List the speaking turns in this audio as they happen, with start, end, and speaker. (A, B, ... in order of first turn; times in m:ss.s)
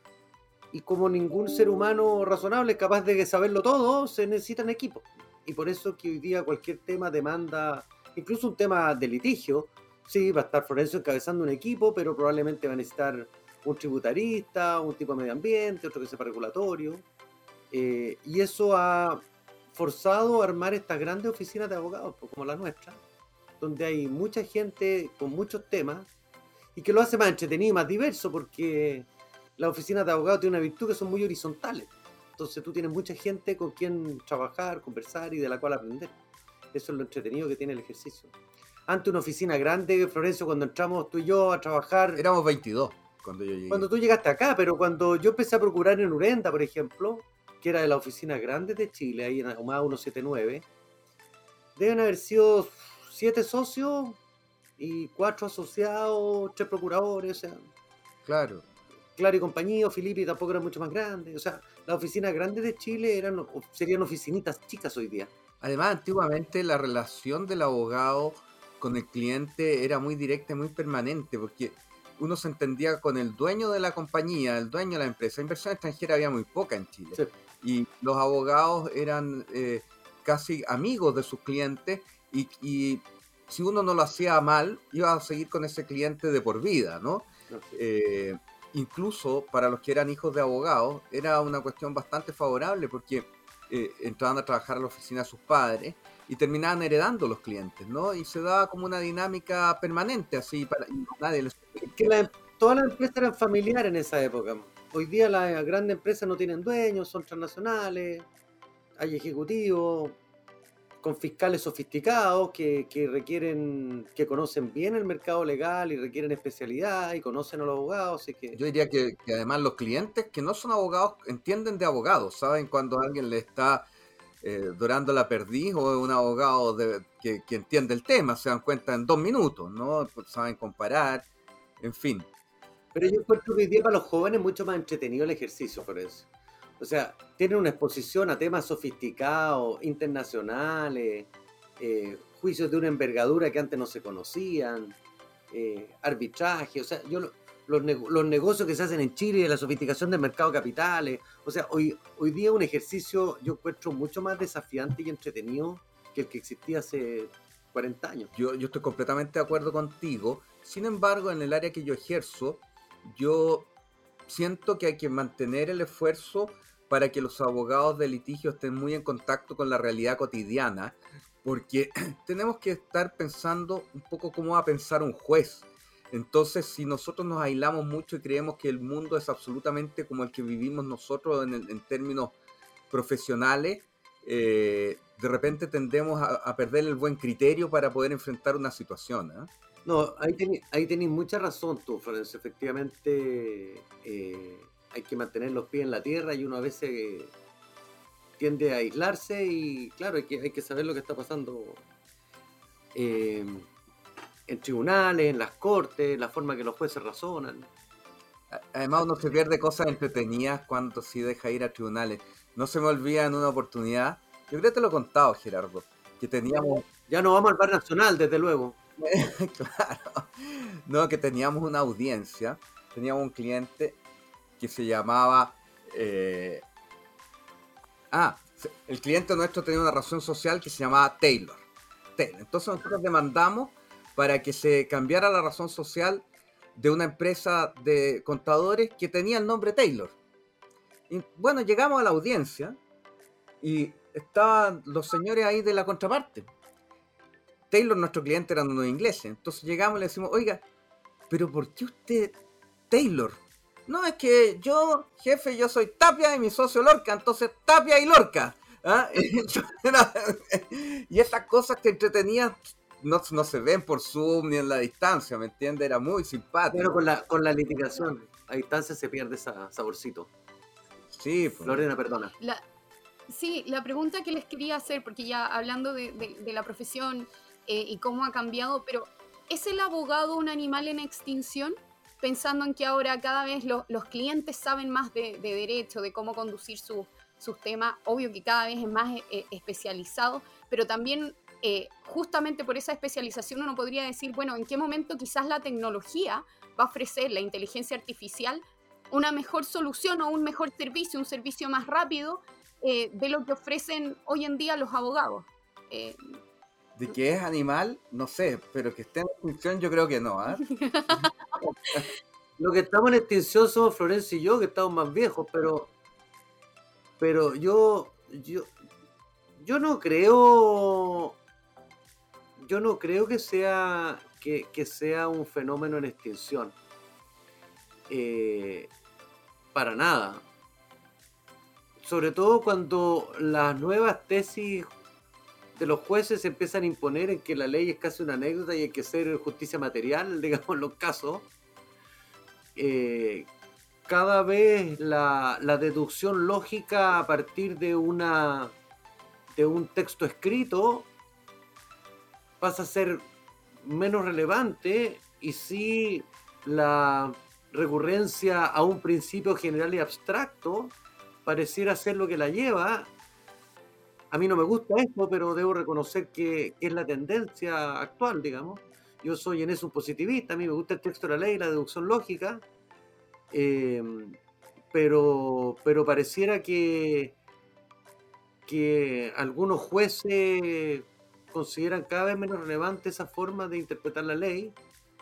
0:00.7-0:17.0 A
0:17.7-0:23.0 A
0:23.6-0:26.1 A
0:26.8-0:36.1 A
0:36.7-0:38.3 A
0:38.9-0:42.2 A
0:42.2-0:43.9 B
0:43.7-0:50.6 A
0:51.8-0:54.2 A
0:54.8-0:57.6 A
0:58.2-0:58.6 B
0:59.2-1:05.3 A
1:05.6-1:42.1 B
1:27.5-1:27.8 A
1:41.8-1:48.2 A
1:49.0-1:50.2 A
1:51.0-1:58.6 A
1:58.5-2:03.9 B
2:04.4-2:11.2 B
2:11.8-2:12.3 B
2:12.9-2:16.3 A
2:16.8-2:25.0 A
2:25.5-2:38.3 A
2:38.3-2:43.7 B
2:44.3-3:02.3 B
3:02.9-3:09.5 B
3:09.8-3:17.3 A
3:18.4-3:21.8 A
3:22.9-3:23.7 A
3:24.5-3:27.7 A
3:28.5-3:36.8 B
3:36.9-3:38.8 A
3:39.0-3:44.0 B
3:44.6-3:46.6 B
3:48.1-3:51.6 B
3:52.2-4:00.2 B
4:01.1-4:02.8 B
4:03.6-4:06.5 B
4:07.7-4:10.6 B
4:11.3-4:12.4 B
4:12.9-4:26.9 B
4:26.7-4:30.3 A
4:31.1-4:31.8 B
4:31.6-4:32.3 A
4:33.3-5:06.3 C
5:07.0-5:10.7 B
5:10.6-5:11.3 C
5:12.6-5:15.9 A
5:17.2-5:18.7 A
5:19.6-5:21.4 A
5:22.6-5:26.8 A
5:28.1-5:28.9 A
5:29.7-5:30.4 A
5:32.0-5:34.8 A
5:35.8-5:41.5 A
5:42.8-5:43.5 A
5:44.1-5:48.7 A
5:49.5-5:51.1 A
5:52.6-5:53.3 A
5:53.8-6:03.1 A
6:04.3-6:12.6 A
6:13.5-6:14.4 A
6:14.9-6:17.4 A
6:18.7-6:24.8 A